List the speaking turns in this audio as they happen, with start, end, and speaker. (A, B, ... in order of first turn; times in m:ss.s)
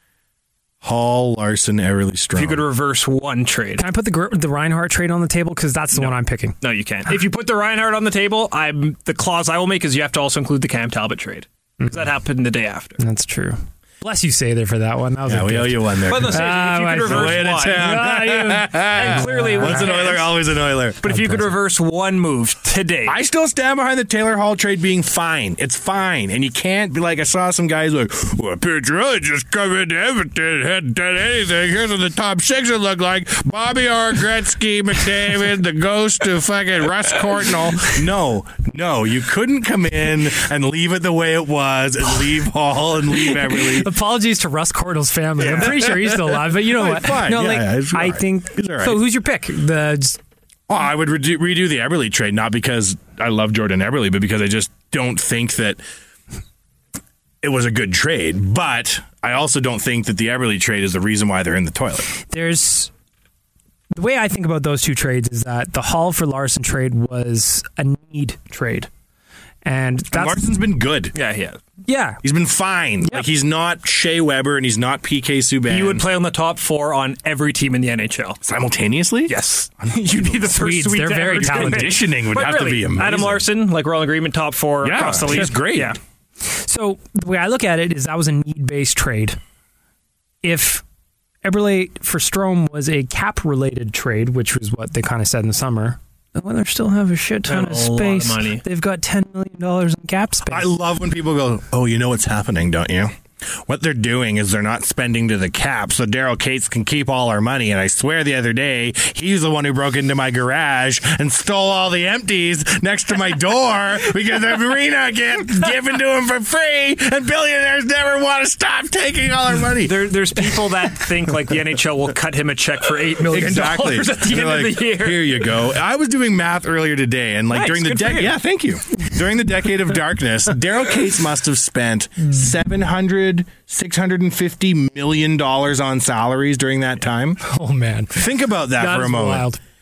0:00.8-0:02.7 A
0:02.3-0:03.8 B
0:03.8-0:06.5 C
0:05.9-0:13.0 B
0:13.0-0:20.1 C
0:15.2-0:16.4 A
0:16.1-0:18.0 B
0:17.0-0:21.0 A
0:18.9-0:20.3 B
0:21.0-0:23.2 B
0:21.1-0:21.5 C
0:23.0-0:43.9 A
0:43.1-0:50.2 C
0:45.4-0:45.7 B
0:45.5-0:49.0 A
0:50.7-0:55.8 A
0:57.4-1:02.1 A
1:02.2-1:02.9 C
1:03.9-1:08.9 C
1:09.6-1:10.4 C
1:10.1-1:11.1 A
1:11.1-1:11.6 B
1:11.9-1:12.2 C
1:12.2-1:16.0 A
1:15.7-1:18.4 B
1:18.4-1:20.6 A
1:19.3-1:26.0 B
1:20.5-1:21.9 C
1:21.3-1:23.5 A
1:24.8-1:26.0 A
1:26.4-1:29.4 C
1:30.4-1:30.8 C
1:31.4-1:40.7 C
1:37.5-1:38.6 B
1:40.5-2:00.0 A
1:59.8-2:05.5 B
2:03.3-2:17.4 A
2:07.5-2:08.3 B
2:17.4-2:18.2 C
2:18.1-2:19.5 A
2:18.7-2:19.6 C